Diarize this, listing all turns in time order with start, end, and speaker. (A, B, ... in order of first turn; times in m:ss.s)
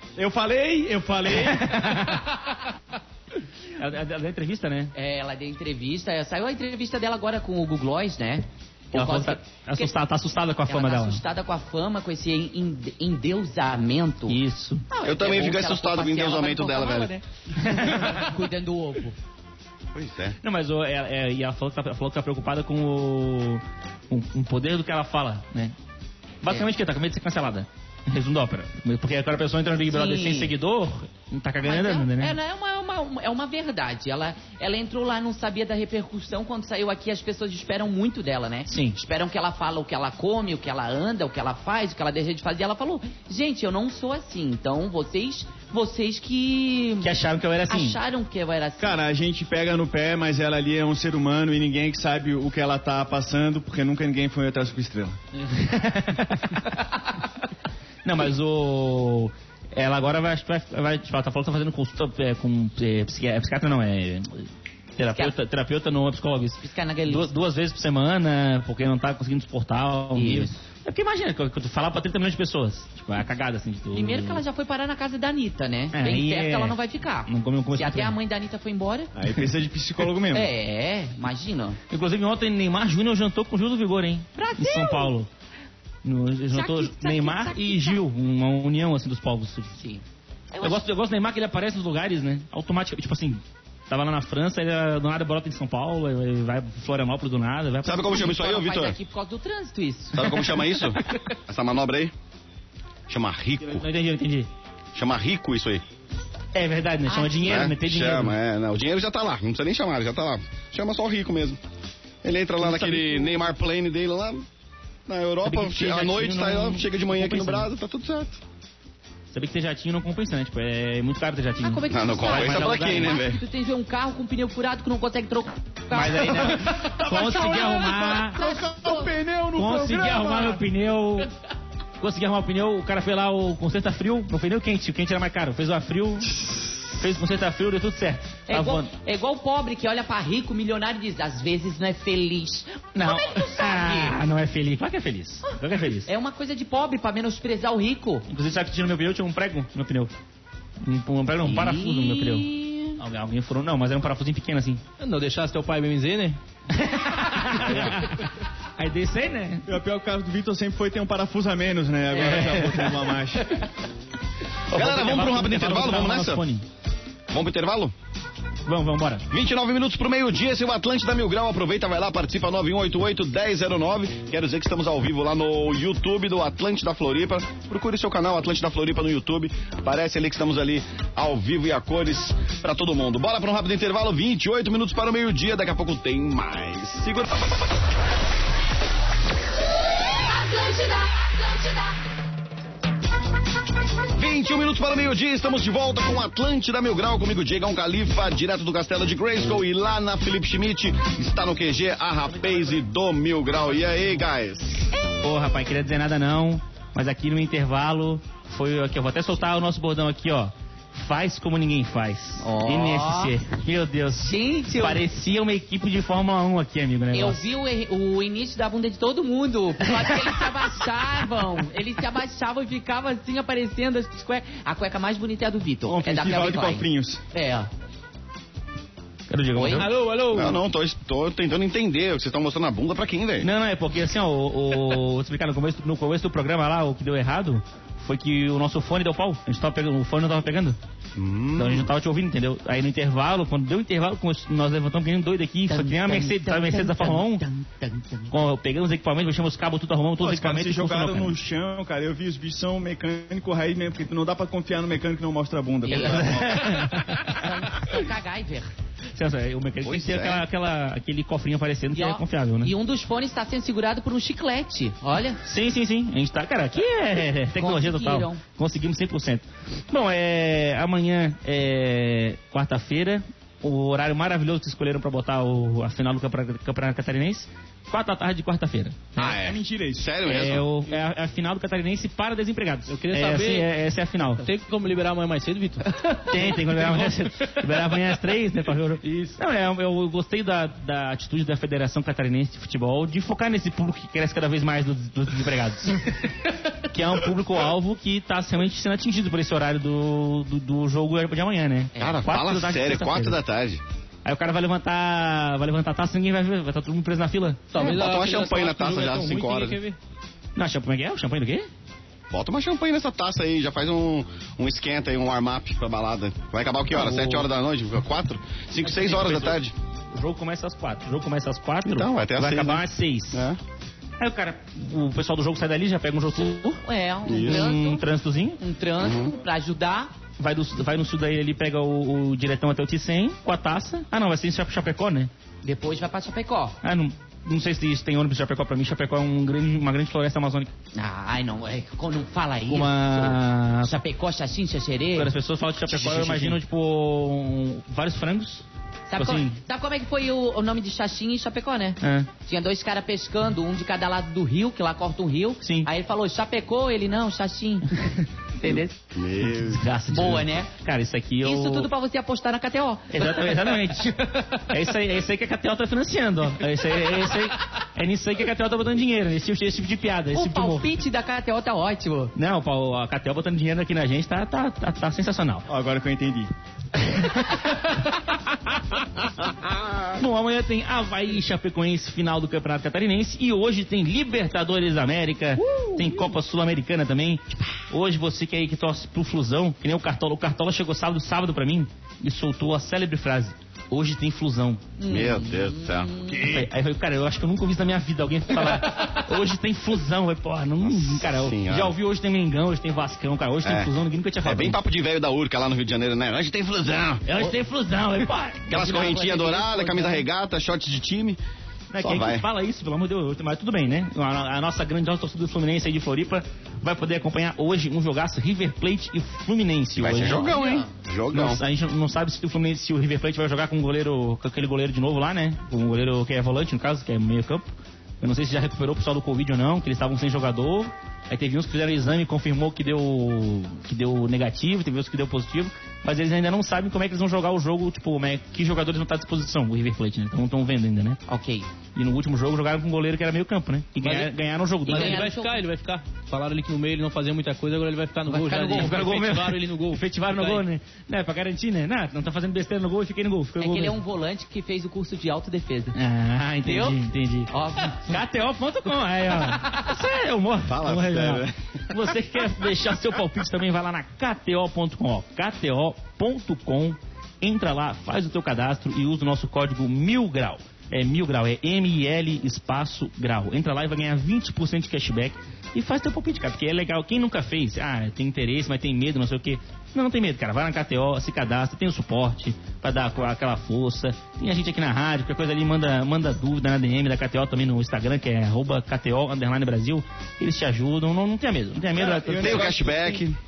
0:00.2-0:02.1 A
0:01.3-0:02.3 B
0:03.8-0:04.9 B
0:05.0-0:09.9 C
0:08.9-0:11.2 B
0:10.7-0:14.4 C
0:14.3-0:14.8 B
0:14.9-0:19.2 C
0:15.0-0:17.1 D
0:17.6-0:18.3 B
0:19.9-0:20.4 D
0:20.4-0:25.7 B
0:26.4-0:32.4 B
0:29.9-0:30.5 C
0:31.6-0:47.2 C
0:38.7-0:39.0 B
0:47.0-0:48.0 B
0:47.7-0:49.0 C
0:48.8-0:55.2 A
0:55.4-0:56.8 B
0:58.0-1:14.4 B
1:06.6-1:07.3 C
1:10.2-1:10.6 C
1:13.9-1:19.1 C
1:15.9-1:18.2 B
1:19.1-1:20.5 A
1:20.3-1:21.8 C
1:21.9-1:25.3 B
1:24.4-1:25.1 C
1:26.0-1:29.7 B
1:26.5-1:28.0 C
1:29.7-1:30.8 C
1:30.6-1:38.4 B
1:37.8-1:39.0 D
1:38.0-1:40.8 C
1:40.1-1:42.1 D
1:40.2-1:40.8 B
1:43.1-1:43.9 D
1:43.6-1:44.5 B
1:44.9-1:45.8 D
1:46.5-1:48.4 B
1:47.1-1:47.7 C
1:47.4-1:51.6 D
1:52.2-1:54.4 D
1:52.6-1:53.4 B
1:55.1-1:58.4 D
1:55.4-1:57.7 B
1:59.3-2:03.2 B
2:01.6-2:06.8 C
2:01.9-2:03.4 D
2:05.9-2:08.5 B
2:06.6-2:10.7 A
2:08.3-2:09.1 C
2:09.6-2:11.3 B
2:12.0-2:18.9 B
2:18.5-2:24.2 C
2:23.0-2:26.1 B
2:26.1-2:28.3 C
2:28.3-2:30.1 B
2:30.8-2:34.8 B
2:31.4-2:33.0 C
2:35.0-2:36.4 E
2:36.7-2:39.7 B
2:37.6-2:38.0 D
2:39.7-2:43.6 A
2:42.2-2:42.9 B
2:42.2-2:42.5 C
2:44.7-2:46.4 D
2:44.7-2:46.6 B
2:47.3-2:47.9 D
2:48.7-2:49.3 B
2:49.3-3:07.6 D
3:10.2-3:11.9 C
3:14.2-3:24.9 D
3:22.3-3:22.8 C
3:25.2-3:37.5 B
3:32.4-3:33.4 C
3:34.2-3:35.0 C
3:37.1-3:47.7 C
3:40.0-3:40.3 B
3:45.9-3:46.6 B
3:46.0-3:47.2 A
3:49.3-3:49.9 B
3:49.6-3:49.9 C
3:49.7-3:50.6 E
3:50.3-3:53.5 D
3:53.4-4:00.8 B
4:01.2-4:01.9 D
4:01.6-4:07.5 B
4:05.7-4:08.3 C
4:08.3-4:11.4 B
4:10.2-4:17.1 A
4:15.8-4:18.7 C
4:15.9-4:17.4 B
4:19.2-4:22.7 B
4:19.8-4:20.5 D
4:21.9-4:25.4 C
4:25.4-4:39.3 B
4:27.6-4:28.4 C
4:39.2-4:40.7 D
4:39.2-4:40.1 A
4:40.2-4:44.5 B
4:42.9-4:43.7 E
4:44.4-4:47.6 E
4:46.1-5:03.4 B
4:49.0-4:49.4 E
5:02.0-5:02.2 C
5:02.0-5:03.8 D
5:04.2-5:07.8 B
5:07.7-5:10.0 E
5:07.8-5:09.8 D
5:10.6-5:11.7 B
5:12.3-5:19.7 D
5:16.9-5:17.5 B
5:18.8-5:19.6 B
5:20.1-5:23.5 B
5:21.8-5:23.6 D
5:24.2-5:26.8 B
5:26.4-5:28.1 C
5:27.2-5:27.7 D
5:27.4-5:28.6 B
5:28.6-5:30.1 C
5:29.0-5:29.3 D
5:30.4-5:35.3 B
5:35.6-5:36.8 C
5:36.8-5:40.7 B
5:41.0-5:45.3 C
5:42.7-5:44.0 B
5:45.1-5:48.6 B
5:45.9-5:46.6 C
5:49.1-5:57.9 C
5:49.2-5:49.6 B
5:52.0-5:52.3 B
5:55.6-5:55.9 B
5:58.6-5:59.1 C
5:59.1-5:59.9 D
5:59.4-6:01.9 B
6:00.1-6:00.7 C
6:01.4-6:04.5 C
6:03.1-6:11.0 B
6:07.0-6:07.4 C
6:10.3-6:12.3 C
6:12.4-6:15.6 B
6:15.7-6:16.5 A
6:17.0-6:18.9 B
6:20.1-6:34.8 B
6:35.0-6:36.6 C
6:35.1-6:36.6 D
6:36.4-6:44.8 B
6:40.8-6:42.0 D
6:43.6-6:47.5 D
6:47.3-6:49.0 B
6:48.7-6:51.4 D
6:48.7-6:50.2 C
6:51.9-7:00.6 B
6:52.0-6:52.5 D
7:00.0-7:01.6 D
7:00.3-7:00.9 C
7:01.3-7:07.7 B
7:08.2-7:21.2 B
7:21.3-7:21.7 C
7:22.0-7:25.2 B
7:24.0-7:24.3 E
7:24.9-7:25.6 C
7:24.9-7:30.6 E
7:28.3-7:29.0 C
7:28.7-7:34.0 B
7:33.6-7:36.0 C
7:35.9-8:12.8 B
7:36.6-7:38.2 C
7:39.4-7:39.9 C
7:40.7-7:41.8 D
8:11.9-8:13.3 A
8:12.4-8:13.4 D